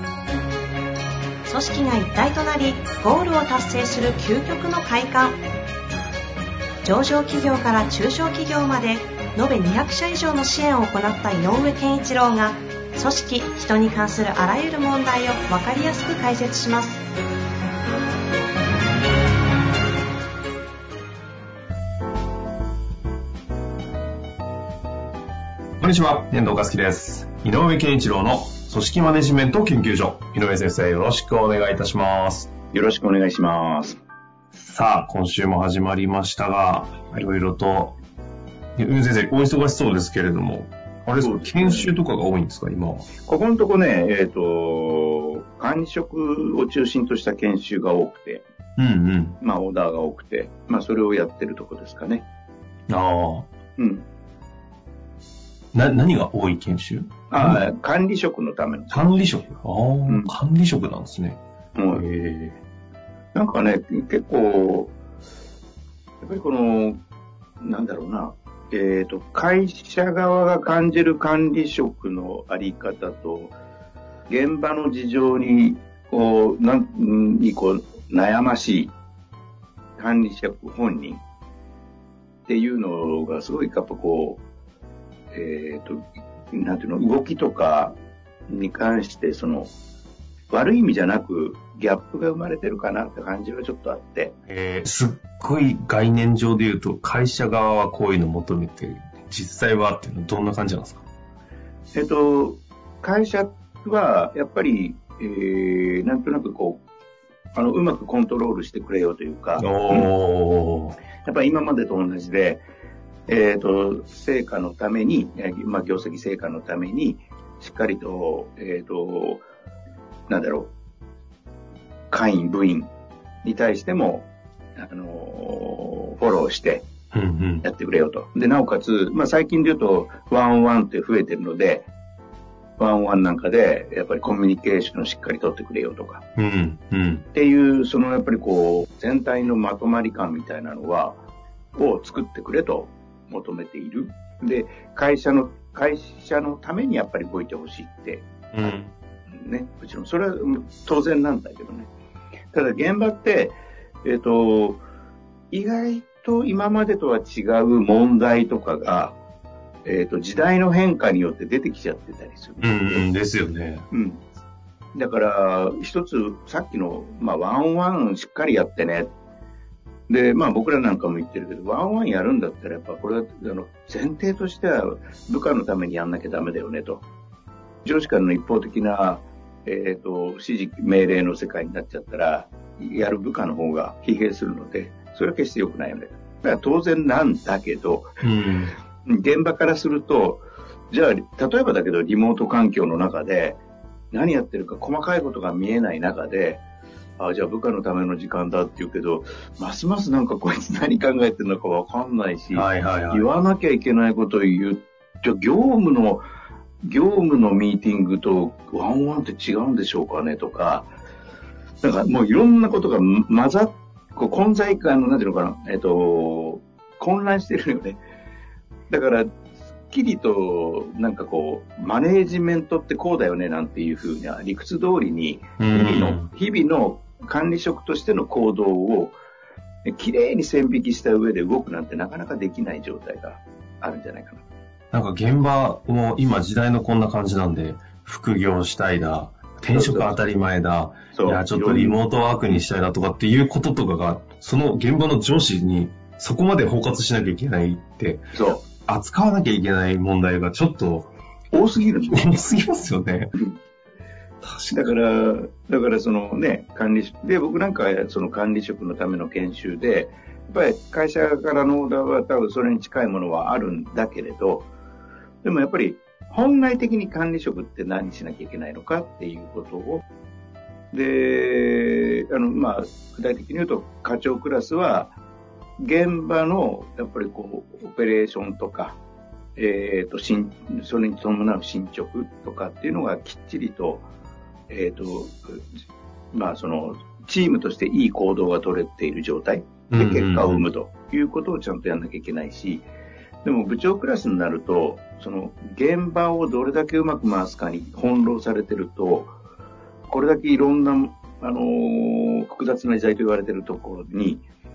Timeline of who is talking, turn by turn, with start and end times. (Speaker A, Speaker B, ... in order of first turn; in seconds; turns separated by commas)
Speaker A: 1.4-5.4, Speaker A: 6.8-17.0, Speaker B: 25.8-32.5, Speaker C: 32.7-34.0, Speaker B: 34.5-38.0, Speaker B: 38.8-43.1, Speaker C: 41.2-42.0, Speaker C: 43.2-48.4, Speaker B: 48.8-49.4, Speaker C: 49.4-52.2, Speaker B: 52.9-53.5, Speaker C: 53.8-54.0, Speaker B: 55.7-57.7, Speaker C: 57.3-59.2, Speaker B: 58.9-61.4, Speaker C: 60.1-60.3, Speaker C: 61.7-62.0, Speaker B: 61.9-62.6, Speaker C: 63.3-64.9, Speaker C: 66.2-67.0, Speaker C: 67.6-73.5, Speaker C: 74.3-78.9, Speaker C: 80.0-81.2, Speaker C: 82.5-84.4, Speaker C: 85.3-87.9, Speaker C: 88.5-89.7, Speaker C: 90.5-94.3, Speaker B: 94.5-101.0, Speaker C: 101.9-106.8, Speaker C: 107.5-110.1, Speaker B: 109.6-111.0, Speaker C: 111.2-112.6, Speaker C: 113.3-119.4, Speaker C: 120.3-120.7, Speaker C: 122.1-122.9, Speaker C: 123.4-126.9, Speaker B: 127.1-127.7, Speaker C: 127.6-131.8, Speaker C: 132.8-136.2, Speaker B: 136.3-137.2, Speaker C: 137.3-141.2, Speaker C: 141.7-148.7, Speaker B: 148.5-148.9, Speaker C: 149.3-151.9, Speaker C: 152.5-154.8, Speaker C: 155.5-159.2, Speaker C: 159.8-163.1, Speaker B: 162.6-163.9, Speaker C: 163.9-164.2, Speaker C: 164.9-169.1, Speaker C: 170.1-177.0, Speaker C: 177.8-188.1, Speaker B: 188.2-188.7, Speaker C: 189.0-193.6, Speaker C: 194.1-196.6, Speaker C: 197.2-206.2, Speaker B: 202.5-203.3, Speaker C: 206.8-210.9, Speaker C: 211.8-218.0, Speaker C: 218.9-219.3, Speaker C: 219.9-229.1, Speaker B: 225.6-226.3, Speaker C: 229.8-234.4, Speaker B: 234.9-251.1, Speaker C: 239.7-240.2, Speaker C: 241.1-242.0, Speaker C: 248.3-248.6, Speaker C: 251.5-252.3, Speaker B: 252.1-253.3, Speaker B: 254.4-254.8, Speaker C: 254.7-264.7, Speaker C: 265.4-270.0, Speaker C: 270.9-275.1, Speaker C: 275.8-279.0, Speaker C: 279.6-284.1, Speaker C: 284.7-285.6, Speaker C: 286.3-292.9, Speaker B: 289.9-290.7, Speaker C: 293.4-299.3, Speaker C: 300.1-304.4